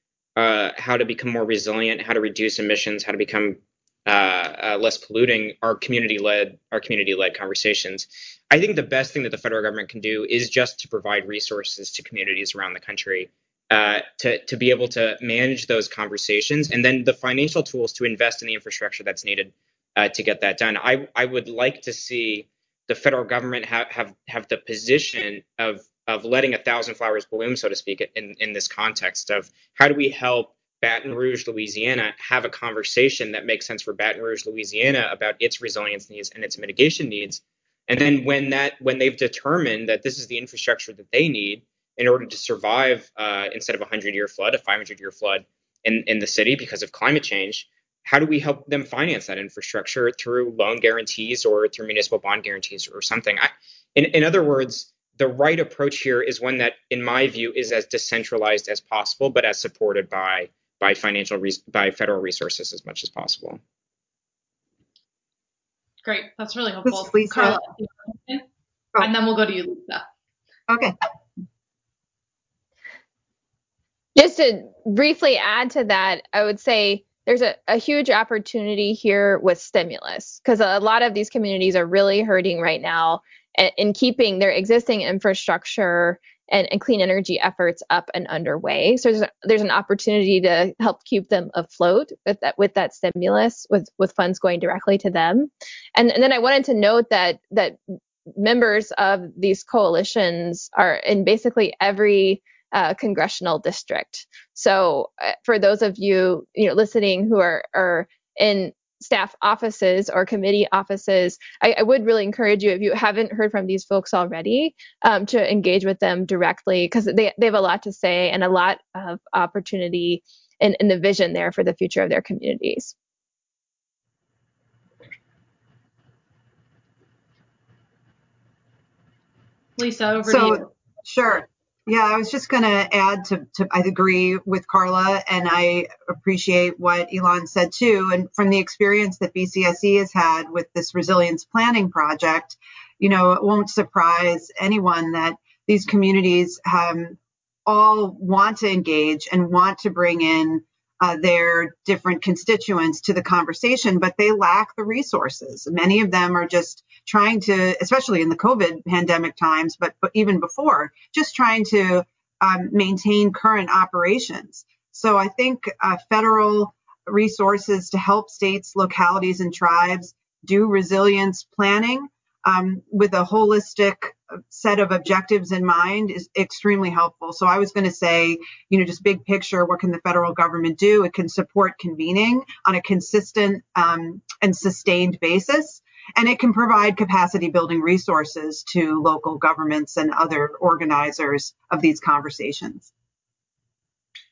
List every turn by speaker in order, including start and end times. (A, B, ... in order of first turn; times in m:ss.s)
0:00.4-1:03.6 A
1:06.0-1:08.4 B
1:06.8-1:07.6 C
1:09.0-1:10.0 B
1:10.7-1:10.9 C
1:14.2-1:37.8 D
1:38.3-2:02.9 D
2:09.8-2:10.7 B
2:10.2-3:12.9 C